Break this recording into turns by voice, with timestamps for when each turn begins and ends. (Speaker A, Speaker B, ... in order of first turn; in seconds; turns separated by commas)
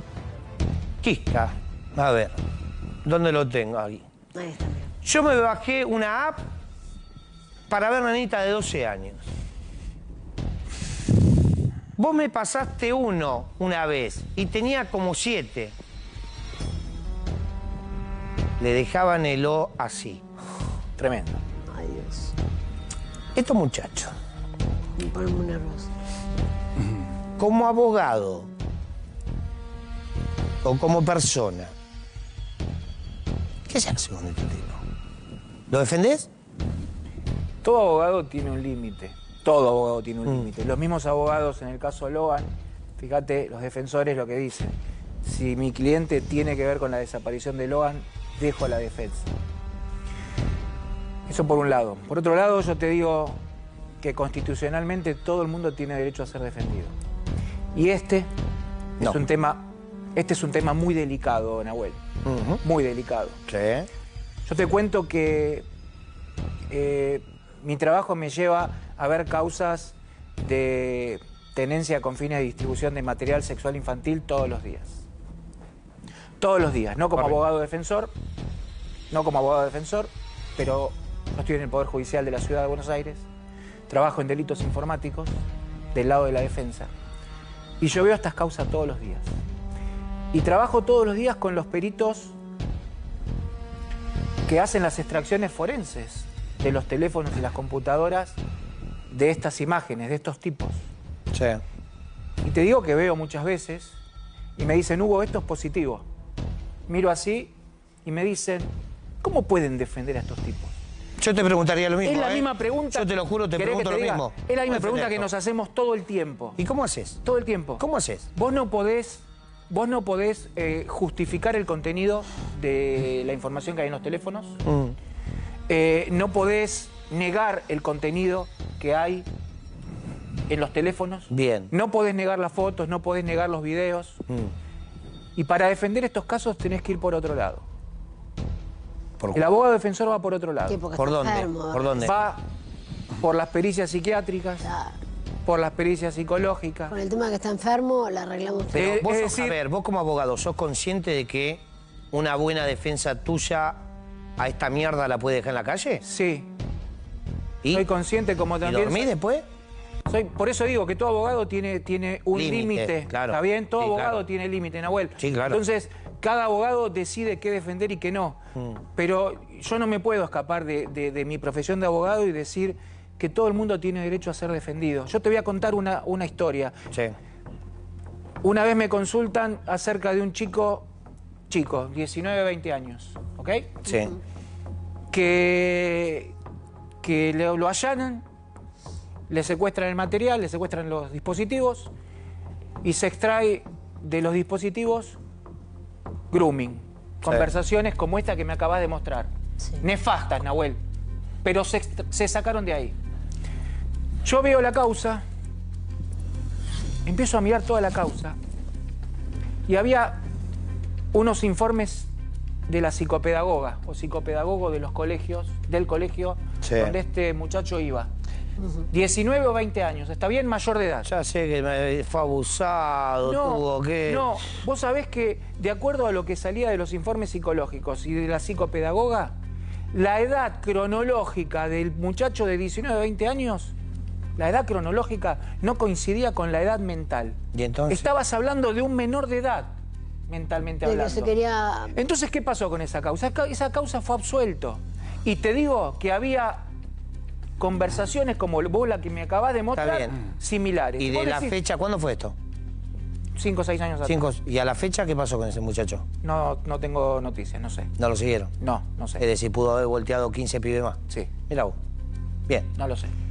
Speaker A: 1.0-2.4, Speaker A: 3.0-4.0, Speaker B: 4.3-4.9, Speaker A: 5.0-6.4, Speaker A: 7.7-9.2, Speaker A: 12.0-15.7, Speaker A: 18.6-20.2, Speaker C: 21.0-21.4, Speaker B: 21.7-22.3, Speaker A: 23.3-24.1, Speaker B: 25.0-25.9, Speaker A: 27.4-28.5, Speaker A: 30.6-31.7, Speaker A: 33.7-34.8, Speaker A: 35.7-36.3, Speaker C: 37.6-49.3, Speaker C: 51.3-53.4, Speaker C: 54.0-56.9, Speaker C: 57.7-58.3, Speaker C: 59.0-62.0, Speaker A: 62.2-62.6, Speaker C: 62.6-63.4, Speaker A: 63.5-63.9, Speaker C: 64.4-65.7, Speaker C: 66.7-75.0, Speaker C: 76.4-78.1, Speaker C: 79.1-83.2, Speaker C: 83.9-85.3, Speaker C: 85.9-86.9, Speaker C: 87.8-89.3, Speaker C: 90.3-92.3, Speaker C: 94.5-98.4, Speaker C: 99.1-100.8, Speaker A: 101.3-101.6, Speaker C: 102.4-104.0, Speaker C: 104.6-106.0, Speaker C: 106.9-107.5, Speaker C: 108.0-110.7, Speaker A: 111.2-115.3, Speaker C: 112.0-116.6, Speaker A: 116.6-117.2, Speaker C: 117.2-117.8, Speaker A: 117.8-118.3, Speaker C: 118.3-124.6, Speaker A: 124.6-125.0, Speaker C: 125.7-129.3, Speaker C: 130.5-134.2, Speaker A: 131.3-131.7, Speaker C: 135.3-137.6, Speaker A: 139.2-139.4, Speaker C: 139.3-140.8, Speaker B: 140.7-141.9, Speaker A: 140.9-142.1, Speaker C: 141.9-142.4, Speaker C: 143.2-144.7, Speaker B: 144.6-144.9, Speaker C: 145.4-146.9, Speaker B: 146.9-149.0, Speaker C: 148.7-149.6, Speaker A: 148.7-153.8, Speaker A: 154.4-156.0, Speaker C: 156.0-156.5, Speaker C: 157.7-159.1, Speaker A: 158.6-159.4, Speaker C: 160.1-176.8, Speaker A: 162.3-164.2, Speaker A: 165.2-165.6, Speaker C: 178.4-180.9, Speaker C: 181.5-183.9, Speaker A: 183.8-184.2, Speaker C: 185.1-186.3, Speaker C: 187.0-188.2, Speaker C: 189.3-191.9, Speaker C: 192.8-195.2, Speaker C: 196.3-200.8, Speaker A: 197.2-197.5, Speaker C: 201.4-202.9, Speaker C: 204.2-205.2, Speaker C: 207.0-208.4, Speaker C: 209.7-210.2, Speaker C: 211.1-212.1, Speaker C: 212.7-218.1, Speaker A: 216.6-216.9, Speaker C: 218.9-221.1, Speaker A: 221.0-224.3, Speaker C: 223.2-229.3, Speaker C: 229.9-233.7, Speaker C: 234.3-237.4, Speaker A: 237.5-238.1, Speaker C: 237.9-239.7, Speaker C: 240.3-241.3, Speaker B: 240.8-241.9, Speaker C: 241.9-246.7, Speaker C: 247.6-251.6, Speaker A: 249.8-250.2, Speaker A: 251.0-252.3, Speaker C: 253.3-254.3, Speaker A: 254.0-256.0, Speaker C: 256.2-257.9, Speaker A: 258.0-258.5, Speaker C: 258.6-259.2, Speaker A: 259.2-261.8, Speaker C: 262.7-263.1